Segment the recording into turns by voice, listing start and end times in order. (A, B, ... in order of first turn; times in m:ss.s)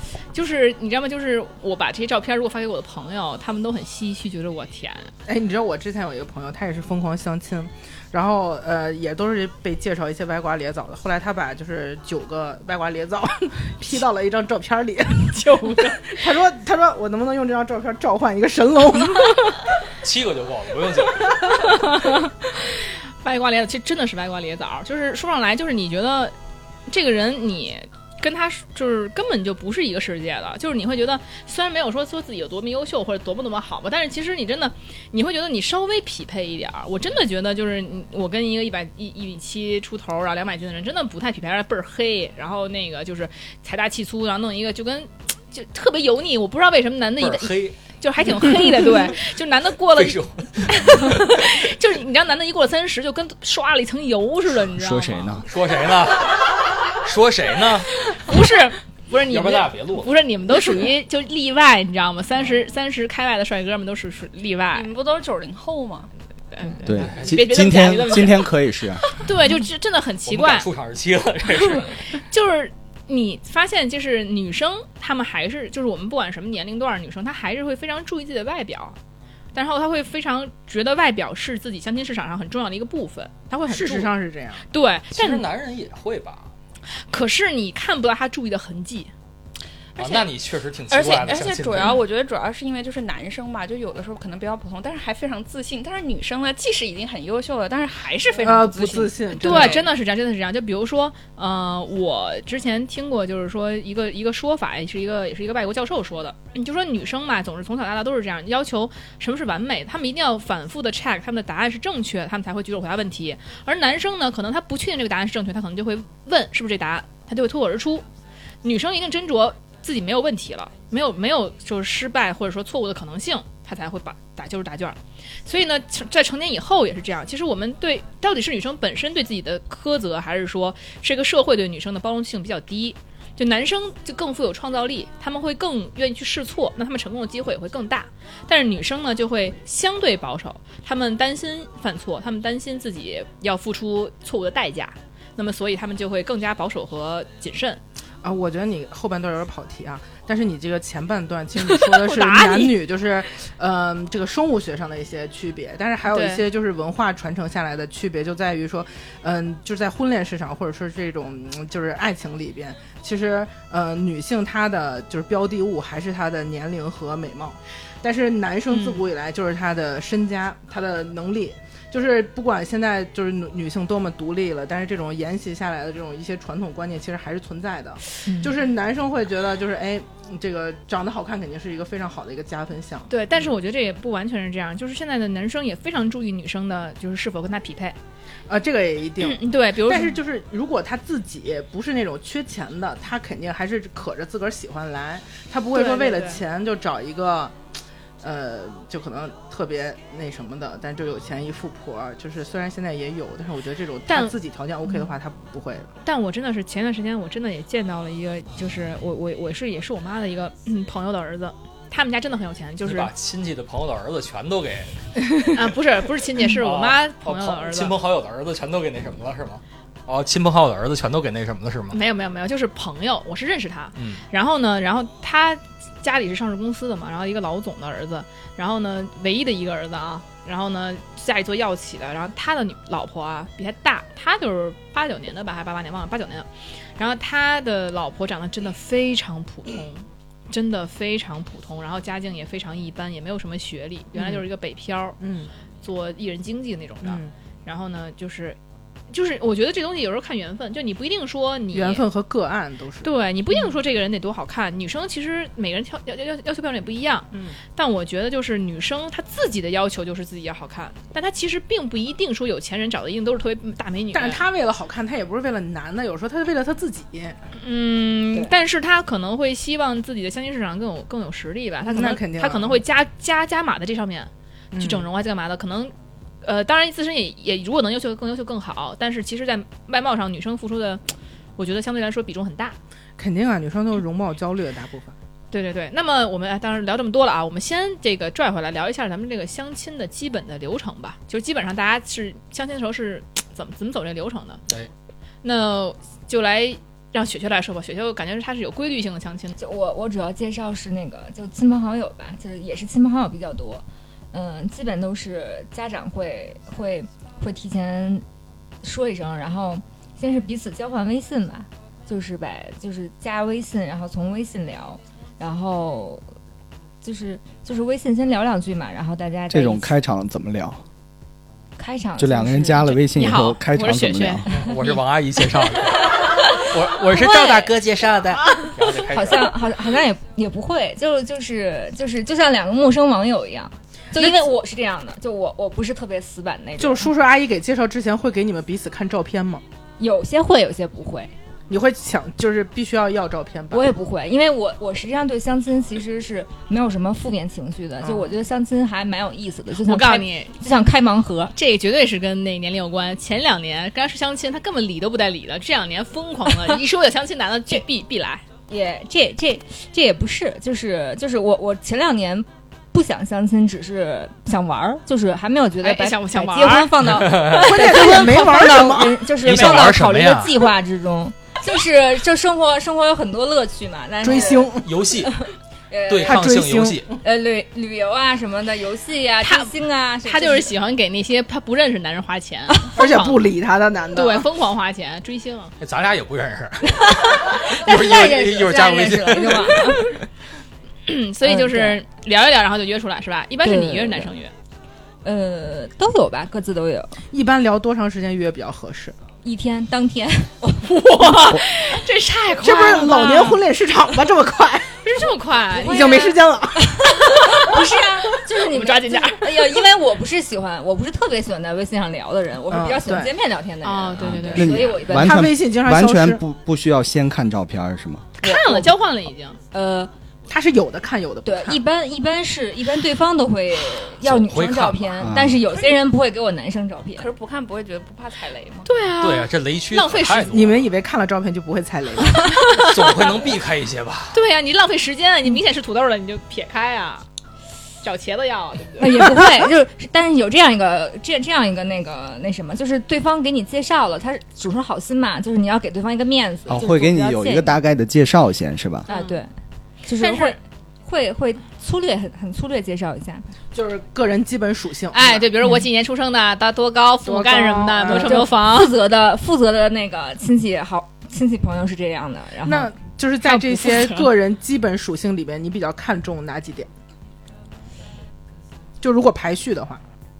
0:00.3-0:05.1 A
0:05.2-0:19.6 B
0:15.3-0:16.2 A
0:20.0-0:21.4 C
0:21.5-0:26.3 A
0:26.9-0:55.4 A
0:47.2-0:47.8 C
0:49.9-0:51.5 C
0:54.8-0:55.5 D
0:55.4-0:57.9 C
0:58.1-1:04.9 A
0:59.2-1:00.1 C
1:04.7-1:06.1 E
1:06.5-1:08.5 A
1:06.9-1:09.1 D
1:07.1-1:07.5 C
1:09.1-1:10.7 A
1:10.2-1:12.0 C
1:12.1-1:19.0 A
1:19.5-1:24.2 A
1:23.7-1:24.6 B
1:24.7-1:25.5 A
1:25.1-1:26.5 C
1:27.1-1:29.1 A
1:30.0-1:30.3 E
1:30.0-1:32.0 C
1:30.9-1:39.9 E
1:38.4-1:39.8 B
1:39.4-1:58.0 A
1:58.6-2:27.8 A
2:28.2-3:03.5 B
2:31.6-2:32.8 A
2:36.1-2:36.4 A
2:48.7-2:49.0 A
2:58.2-2:58.6 A
3:03.1-3:08.0 A
3:08.5-3:17.5 B
3:09.2-3:10.2 A
3:15.7-3:16.4 A
3:18.2-3:25.9 B
3:24.1-3:24.4 A
3:26.0-3:33.1 A
3:32.8-3:34.9 C
3:35.5-3:38.0 A
3:36.4-3:42.0 C
3:41.9-4:05.2 A
3:44.0-3:44.2 C
4:04.2-4:04.4 B
4:05.2-4:05.5 B
4:05.8-4:08.6 A
4:07.0-4:07.3 B
4:09.1-4:12.0 A
4:11.7-4:13.1 B
4:13.0-4:24.4 A
4:17.3-4:17.6 B
4:24.1-4:27.4 B
4:27.6-4:41.0 A
4:31.9-4:32.8 B
4:34.7-4:35.1 B
4:41.6-4:42.8 A
4:43.2-4:45.1 B
4:45.5-4:54.6 A
4:55.4-4:59.6 A
4:59.6-5:08.2 F
5:08.8-5:16.2 F
5:17.0-5:20.0 F
5:19.5-5:20.8 D
5:21.8-5:23.0 F
5:22.2-5:24.5 D
5:23.2-5:25.0 A
5:24.5-5:29.6 C
5:27.2-5:27.7 F
5:29.0-5:37.1 F
5:34.2-5:34.4 B
5:36.8-5:39.6 B
5:40.0-5:41.3 F
5:41.7-5:43.9 B
5:43.7-5:51.5 F
5:48.0-5:48.3 B
5:49.7-5:50.5 A
5:51.5-5:58.4 A
5:58.7-6:16.4 F
6:05.8-6:06.9 A
6:07.0-6:07.8 C
6:07.5-6:09.3 B
6:09.4-6:10.6 C
6:14.2-6:14.9 B
6:14.8-6:15.4 C
6:16.1-6:17.1 C
6:16.2-6:17.2 B
6:17.2-6:20.8 F
6:19.4-6:19.7 A
6:20.2-6:23.4 A
6:23.0-6:24.5 B
6:24.1-6:25.7 A
6:25.8-6:30.2 C
6:27.2-6:30.1 F
6:31.0-6:34.5 A
6:31.4-6:32.0 F
6:33.6-6:34.3 F
6:35.2-6:37.2 F
6:37.3-6:39.2 B
6:39.4-6:40.9 F
6:41.0-6:41.6 B
6:41.0-6:43.6 A
6:42.6-6:45.0 B
6:45.0-6:46.4 A
6:45.8-6:47.8 B
6:45.8-6:46.3 F
6:46.9-6:55.5 F
6:48.7-6:49.8 A
6:52.7-6:53.3 B
6:53.8-6:54.8 A
6:54.2-6:58.3 D
6:55.1-6:56.4 B
6:58.4-6:59.6 A
6:58.4-6:58.9 F
6:59.7-7:00.1 F
7:00.5-7:01.8 B
7:01.4-7:07.3 F
7:04.2-7:05.3 C
7:05.2-7:05.6 D
7:07.2-7:08.9 E
7:08.8-7:10.6 A
7:09.2-7:10.8 C
7:10.5-7:12.6 B
7:12.5-7:13.3 A
7:12.8-7:14.4 C
7:14.3-7:17.2 A
7:18.0-7:19.2 A
7:19.0-7:27.8 F
7:26.7-7:29.1 D
7:29.1-7:29.5 F
7:29.1-7:29.4 A
7:30.0-7:33.5 F
7:30.1-7:30.6 A
7:33.7-7:35.5 B
7:35.1-7:39.0 A
7:37.2-7:38.5 B
7:38.1-7:42.9 F
7:42.6-7:46.9 B
7:43.4-7:44.3 A
7:49.0-7:50.0 B